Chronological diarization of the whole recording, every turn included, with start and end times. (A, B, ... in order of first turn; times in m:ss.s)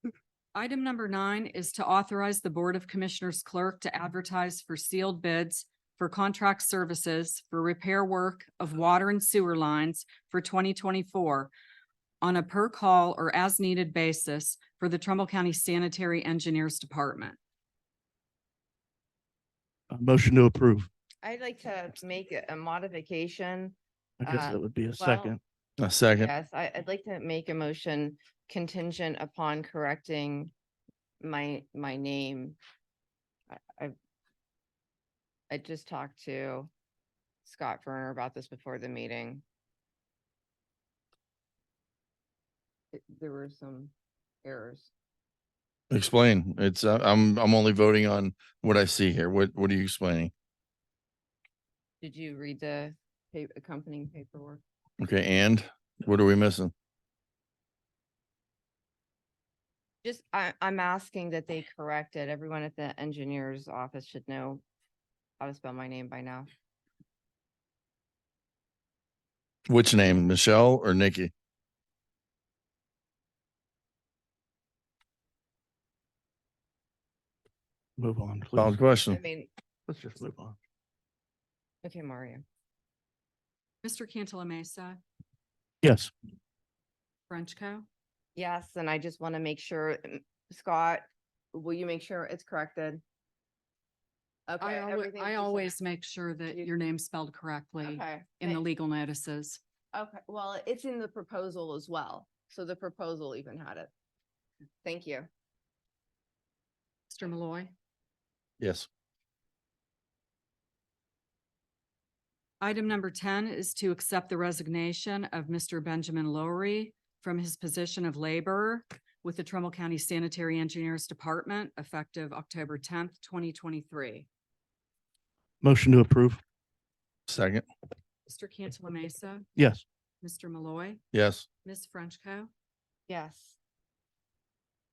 0:00.5-0:11.5 A
0:12.2-0:17.4 A
0:19.9-0:20.9 B
0:21.2-0:25.4 C
0:24.2-0:25.4 B
0:25.8-0:26.3 D
0:26.2-0:30.5 C
0:31.2-0:32.6 C
0:33.5-0:33.9 C
0:35.5-0:36.7 C
0:37.4-0:39.4 C
0:42.9-0:43.9 C
0:44.4-0:44.9 C
0:45.9-0:50.3 D
0:52.0-0:54.6 C
0:55.0-0:56.7 D
1:00.0-1:04.6 C
1:05.4-1:06.5 C
1:09.7-1:11.3 D
1:18.0-1:18.8 B
1:18.6-1:19.2 D
1:19.1-1:19.5 C
1:19.9-1:20.6 B
1:21.8-1:22.4 C
1:23.8-1:25.0 A
1:25.8-1:26.1 B
1:27.3-1:27.9 A
1:28.4-1:33.0 C
1:34.5-1:35.8 C
1:34.6-1:39.6 A
1:37.8-1:38.6 C
1:39.9-1:43.9 C
1:44.8-1:45.3 C
1:47.1-1:47.7 A
1:48.6-1:48.9 D
1:52.6-2:04.3 A
2:05.6-2:06.4 B
2:07.3-2:07.6 D
2:08.3-2:09.5 A
2:09.6-2:09.8 B
2:10.2-2:11.0 A
2:11.1-2:11.4 D
2:11.6-2:12.5 A
2:13.1-2:13.6 C